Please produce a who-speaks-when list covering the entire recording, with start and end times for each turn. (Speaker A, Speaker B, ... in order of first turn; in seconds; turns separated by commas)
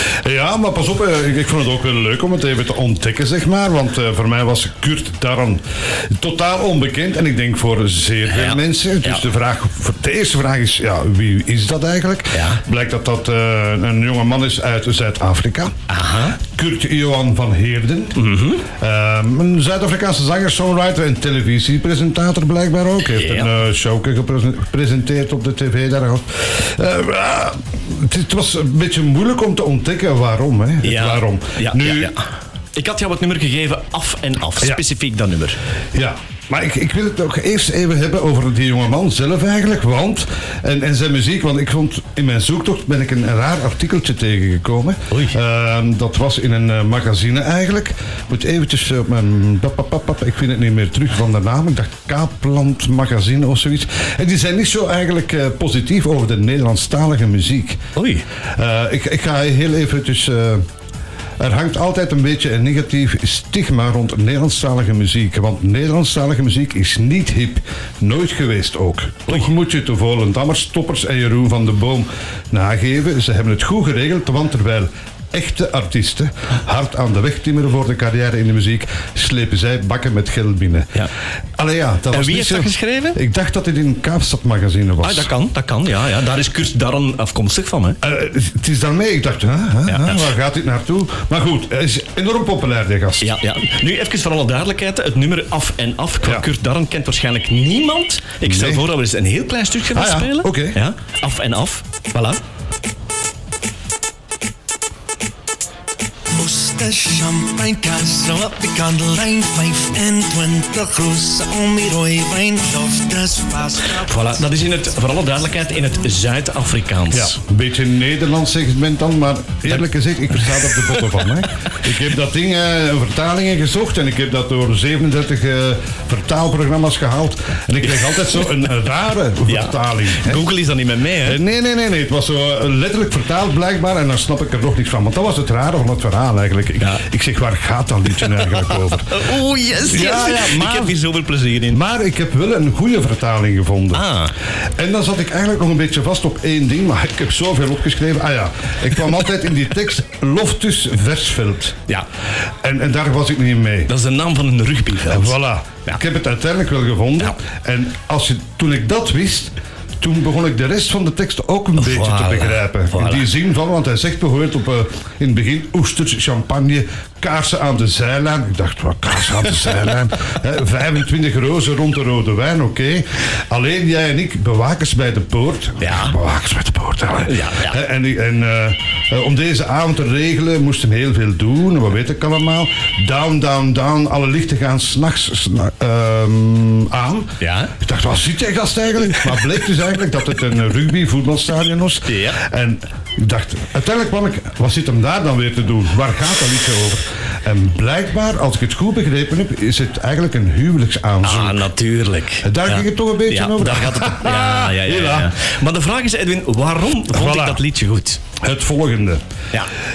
Speaker A: 0.2-15.7, Speaker B: 8.3-9.2, Speaker B: 12.3-12.6, Speaker B: 15.9-16.4, Speaker A: 16.4-32.1, Speaker B: 18.2-18.6, Speaker B: 23.1-23.5, Speaker B: 30.8-32.2, Speaker B: 32.8-35.6, Speaker A: 35.9-57.8, Speaker B: 58.0-58.2, Speaker A: 58.6-60.6, Speaker A: 61.4-81.1, Speaker A: 81.6-85.3, Speaker B: 82.1-83.2, Speaker B: 85.0-88.0, Speaker A: 88.0-93.3, Speaker B: 89.9-90.3, Speaker B: 93.2-102.4, Speaker A: 98.4-98.8, Speaker A: 99.9-100.8, Speaker C: 106.3-114.2, Speaker B: 114.0-117.3, Speaker A: 117.1-130.4, Speaker B: 120.4-121.4, Speaker B: 127.8-128.5, Speaker B: 129.5-131.4, Speaker A: 131.2-139.2, Speaker B: 138.2-141.8, Speaker A: 139.8-141.0, Speaker A: 141.7-144.1, Speaker B: 143.9-144.3, Speaker A: 144.8-151.8, Speaker A: 152.6-153.9, Speaker B: 153.9-156.0, Speaker A: 155.1-201.7, Speaker B: 161.8-163.3, Speaker B: 175.8-176.2, Speaker B: 177.3-177.8, Speaker B: 187.4-187.7, Speaker B: 192.1-192.4, Speaker B: 201.2-208.2, Speaker A: 202.4-205.3, Speaker A: 207.1-207.6, Speaker A: 208.4-209.2